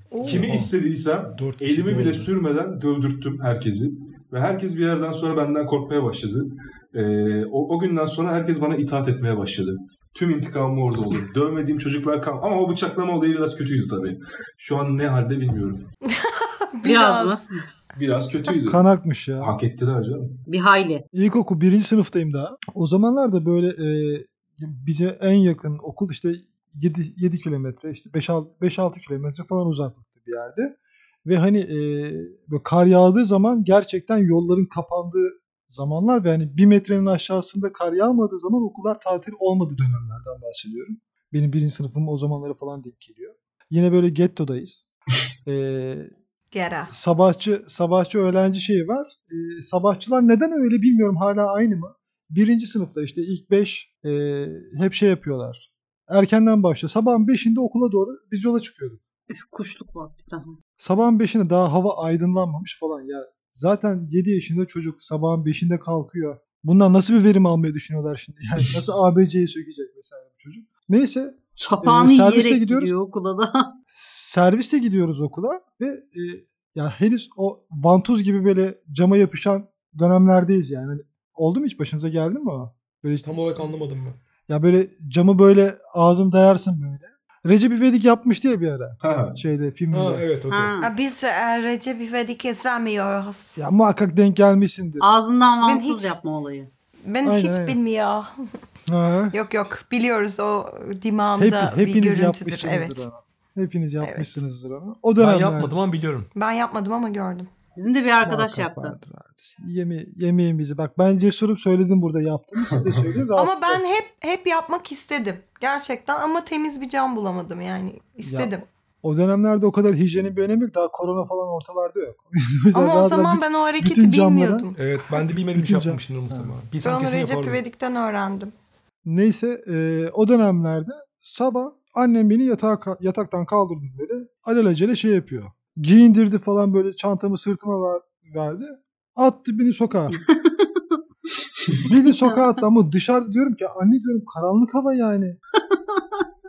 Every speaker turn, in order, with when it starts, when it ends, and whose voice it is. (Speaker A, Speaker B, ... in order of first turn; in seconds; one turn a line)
Speaker A: 0.1-0.5
Speaker B: 0.2-15.9
Speaker C: 0.2-0.7
Speaker C: 1.3-2.3
Speaker A: 16.1-17.4
Speaker D: 16.8-17.5
Speaker B: 17.9-18.8
Speaker E: 18.6-19.5
Speaker B: 19.4-20.4
Speaker D: 20.5-21.0
Speaker E: 21.1-44.9
Speaker E: 45.5-46.1
Speaker A: 46.5-46.9
Speaker E: 46.9-59.0
Speaker D: 59.3-60.5
Speaker E: 60.8-72.9
Speaker D: 71.6-73.7
Speaker E: 73.9-83.3
Speaker C: 83.2-84.2
Speaker E: 84.5-90.3
Speaker B: 89.0-89.4
Speaker C: 89.9-90.8
Speaker D: 90.5-90.9
Speaker A: 90.8-93.6
Speaker E: 93.6-95.1
Speaker D: 95.0-96.7
Speaker A: 95.6-96.2
Speaker A: 97.0-98.3
Speaker E: 97.2-97.8
Speaker E: 98.9-99.4
Speaker A: 99.3-103.0
Speaker E: 101.4-105.7
Speaker A: 104.0-104.4
Speaker C: 105.2-106.3
Speaker A: 106.3-107.5
Speaker D: 107.8-109.0
Speaker E: 108.2-113.9
Speaker B: 112.7-113.0
Speaker A: 113.4-118.7
Speaker E: 118.3-124.7
Speaker A: 122.7-124.8
Speaker C: 124.8-127.6
Speaker E: 125.5-126.5
Speaker A: 126.8-128.5
Speaker E: 129.1-140.2
Speaker D: 140.1-141.0
Speaker E: 141.8-145.4
Speaker D: 145.7-146.2